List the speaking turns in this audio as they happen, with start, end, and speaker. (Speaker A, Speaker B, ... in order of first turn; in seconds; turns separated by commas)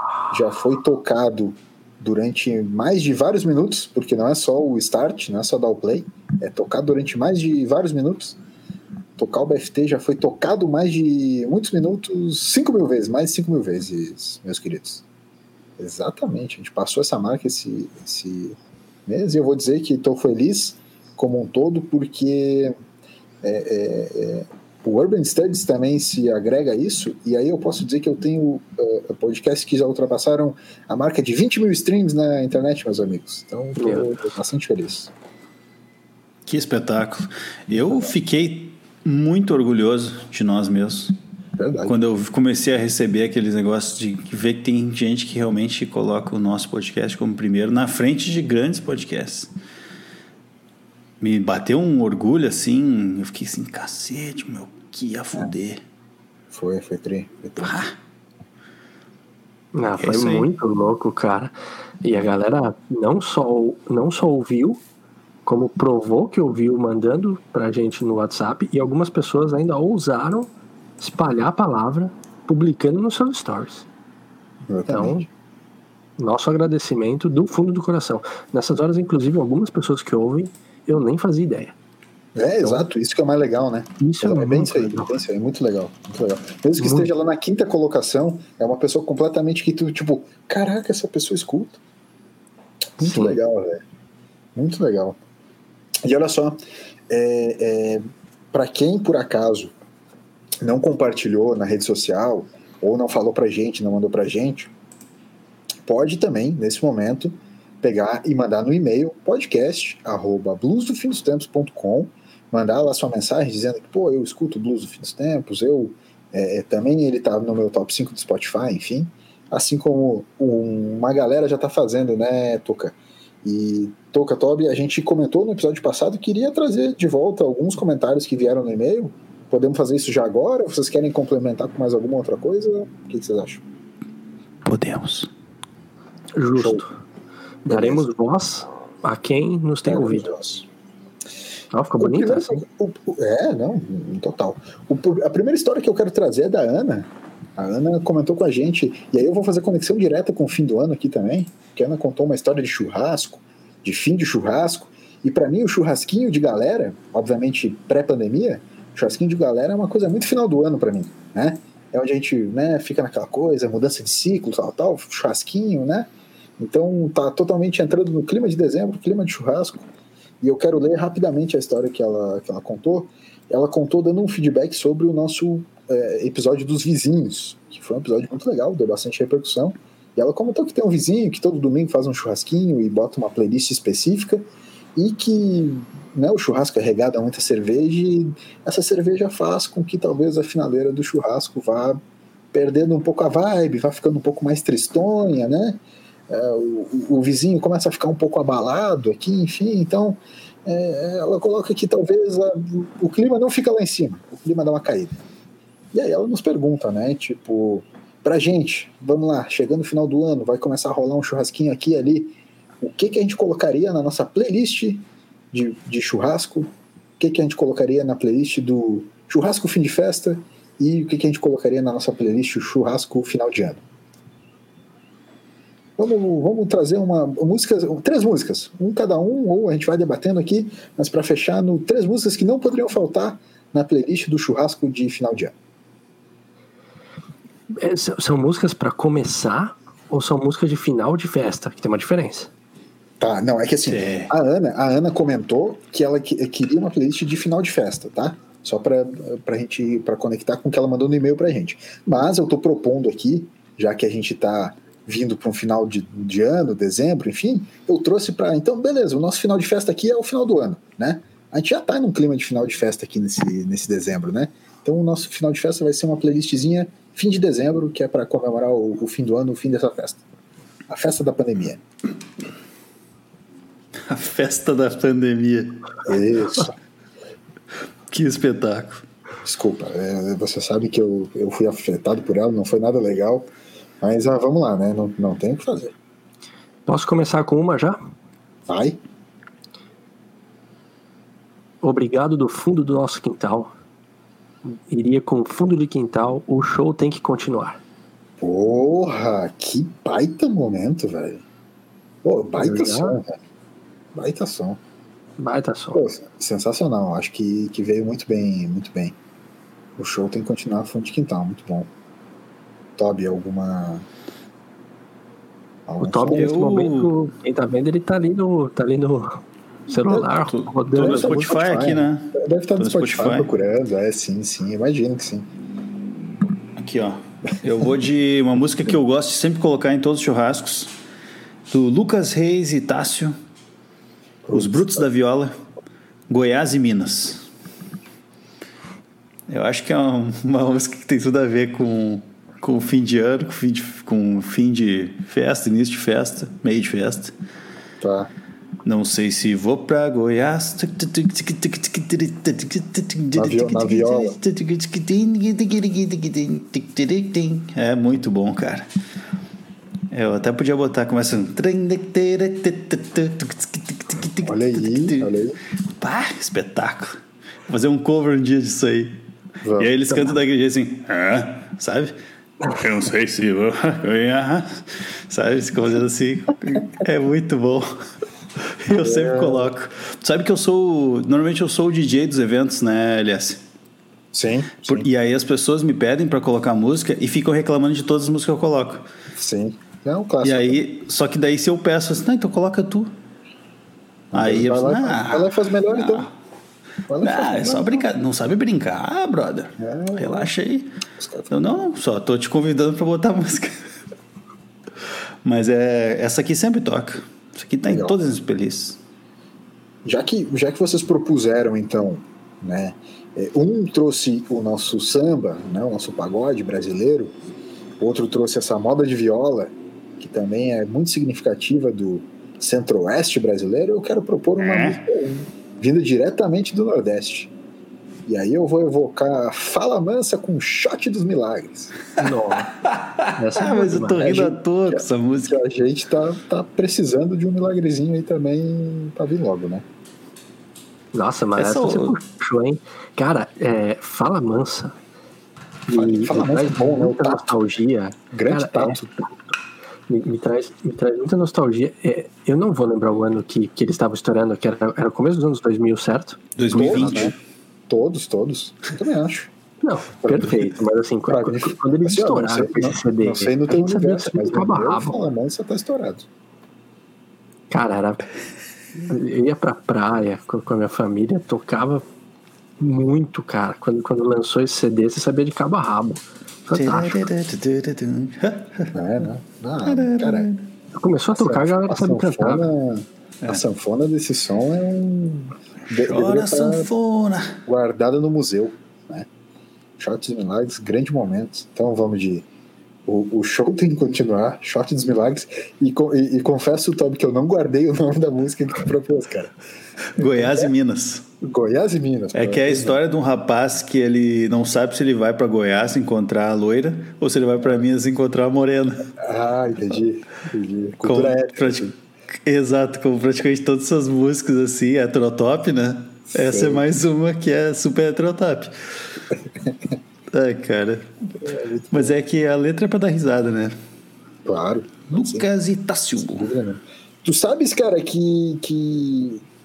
Speaker A: 0.3-8.4, Speaker A: 9.2-15.0, Speaker A: 15.8-22.7, Speaker A: 23.4-35.1, Speaker B: 33.8-34.3, Speaker C: 36.5-41.1, Speaker A: 41.6-42.0, Speaker C: 41.9-49.5, Speaker C: 51.2-55.8, Speaker A: 56.5-57.8, Speaker C: 57.6-57.9, Speaker B: 59.7-64.8, Speaker C: 60.0-60.5, Speaker B: 65.5-73.9, Speaker A: 74.7-75.3, Speaker B: 74.9-75.3, Speaker B: 76.2-81.8, Speaker A: 82.3-91.8, Speaker B: 84.0-85.2, Speaker B: 86.8-87.1, Speaker A: 93.0-93.8, Speaker B: 93.0-93.4, Speaker A: 94.5-95.2, Speaker A: 96.0-99.8, Speaker A: 100.6-104.7, Speaker A: 105.8-133.7, Speaker C: 134.7-135.3, Speaker B: 136.4-136.9, Speaker A: 136.6-136.8, Speaker B: 137.7-140.3, Speaker A: 137.7-138.1, Speaker A: 139.8-140.7, Speaker B: 141.7-142.6, Speaker A: 142.0-169.9, Speaker A: 170.4-192.0, Speaker A: 192.5-205.2, Speaker A: 205.9-223.8, Speaker A: 226.0-235.5, Speaker B: 237.7-242.5, Speaker A: 243.2-270.2, Speaker C: 243.9-244.3, Speaker A: 270.9-271.8, Speaker C: 274.1-276.0, Speaker A: 276.1-276.8, Speaker C: 278.1-279.0, Speaker A: 279.4-285.9, Speaker B: 286.9-288.0, Speaker A: 288.7-289.0, Speaker B: 291.8-293.7, Speaker B: 294.6-297.8, Speaker A: 298.4-301.4, Speaker A: 302.2-303.4, Speaker B: 302.6-303.2, Speaker A: 304.1-304.8, Speaker B: 305.4-306.0, Speaker A: 305.9-309.2, Speaker A: 310.0-311.9, Speaker A: 313.0-314.1, Speaker A: 315.9-316.5, Speaker B: 316.0-321.4, Speaker C: 316.3-317.1, Speaker C: 320.2-323.5, Speaker A: 320.9-325.5, Speaker C: 326.8-330.9, Speaker C: 331.7-333.4, Speaker A: 334.4-335.1, Speaker C: 334.5-335.5, Speaker C: 336.3-337.5, Speaker C: 339.5-347.3, Speaker A: 348.0-348.3, Speaker C: 348.8-358.9, Speaker A: 353.3-354.4, Speaker C: 360.1-365.4, Speaker A: 364.4-365.6, Speaker C: 366.0-369.2, Speaker A: 369.6-369.9, Speaker C: 369.8-377.9, Speaker C: 378.8-383.6, Speaker A: 378.9-379.7, Speaker A: 384.3-385.1, Speaker C: 384.9-389.1, Speaker A: 389.3-390.8, Speaker C: 390.4-393.1, Speaker A: 394.3-396.3, Speaker C: 394.3-396.3, Speaker A: 397.1-398.1, Speaker C: 397.2-400.9, Speaker A: 399.8-400.5, Speaker A: 401.2-401.5, Speaker C: 401.5-403.9, Speaker C: 405.4-409.0, Speaker A: 407.8-408.2, Speaker A: 410.1-417.4, Speaker A: 418.0-427.5, Speaker C: 424.6-425.0, Speaker A: 428.3-431.9, Speaker B: 432.2-432.7, Speaker C: 432.9-435.6, Speaker B: 433.4-434.5, Speaker A: 434.2-439.9, Speaker B: 441.1-445.0, Speaker C: 441.6-442.2, Speaker B: 445.9-449.5, Speaker A: 445.9-447.6, Speaker A: 448.3-449.1, Speaker B: 450.1-457.3, Speaker C: 456.6-457.3, Speaker A: 456.7-457.4, Speaker A: 457.9-459.5, Speaker B: 459.8-465.2, Speaker A: 460.2-460.7, Speaker A: 461.3-466.3, Speaker B: 467.7-468.2, Speaker B: 469.0-472.1, Speaker B: 472.8-477.3, Speaker C: 476.8-478.9, Speaker A: 478.9-480.5, Speaker C: 479.9-480.6, Speaker B: 480.9-482.7, Speaker A: 481.3-486.9, Speaker C: 485.9-487.6, Speaker A: 487.6-489.3, Speaker A: 490.0-492.5, Speaker A: 493.1-499.6, Speaker C: 500.2-501.3, Speaker A: 500.2-500.7, Speaker A: 501.4-503.0, Speaker C: 502.3-509.1, Speaker A: 509.2-511.9, Speaker C: 511.0-518.7, Speaker A: 516.3-516.9, Speaker A: 519.6-519.9, Speaker C: 520.3-521.1, Speaker A: 521.4-522.2, Speaker C: 521.9-523.8, Speaker A: 524.5-525.5, Speaker C: 525.1-526.5, Speaker A: 526.2-529.5